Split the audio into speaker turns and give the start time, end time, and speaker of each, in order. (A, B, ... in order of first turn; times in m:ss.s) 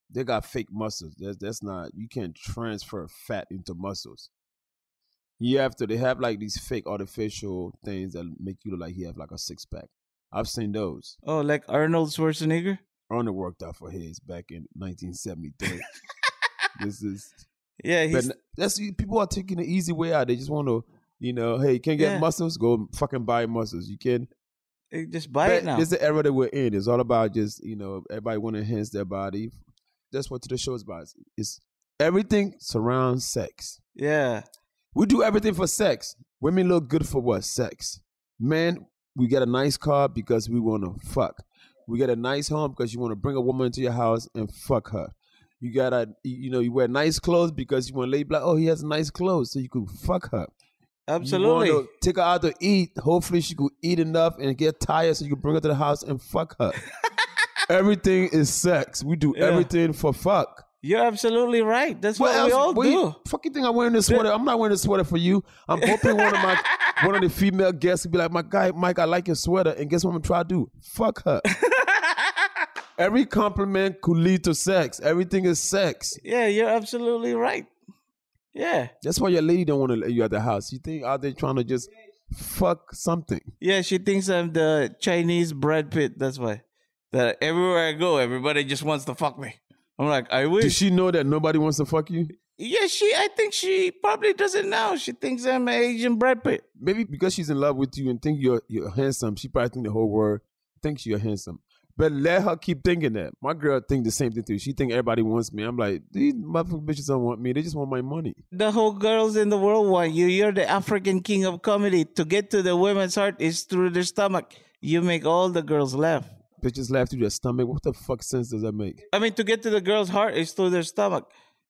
0:00.1-0:04.3 A
0:05.4-0:11.2 A
0:11.2-0:12.8 B
0:13.1-0:15.8 A
0:16.8-0:17.4 A
0:17.8-0:18.3 B
0:18.1-0:24.3 A
0:22.0-0:22.2 B
0:24.9-0:25.9 B
0:25.4-0:29.6 A
0:30.1-0:33.8 A
0:34.0-0:34.4 B
0:34.9-0:50.5 A
0:51.1-0:51.9 B
0:51.2-0:56.8 A
0:57.7-1:00.6 A
0:59.3-0:59.7 B
1:00.8-1:03.2 B
1:02.2-1:11.4 A
1:05.8-1:07.0 B
1:11.5-1:12.4 B
1:13.0-1:16.2 A
1:16.2-1:17.7 B
1:18.5-1:18.9 B
1:19.0-1:23.5 A
1:23.6-1:30.8 B
1:30.6-1:32.3 A
1:32.6-1:36.6 B
1:36.8-1:48.4 A
1:48.5-1:56.3 B
1:56.6-1:59.0 A
1:59.1-2:01.3 B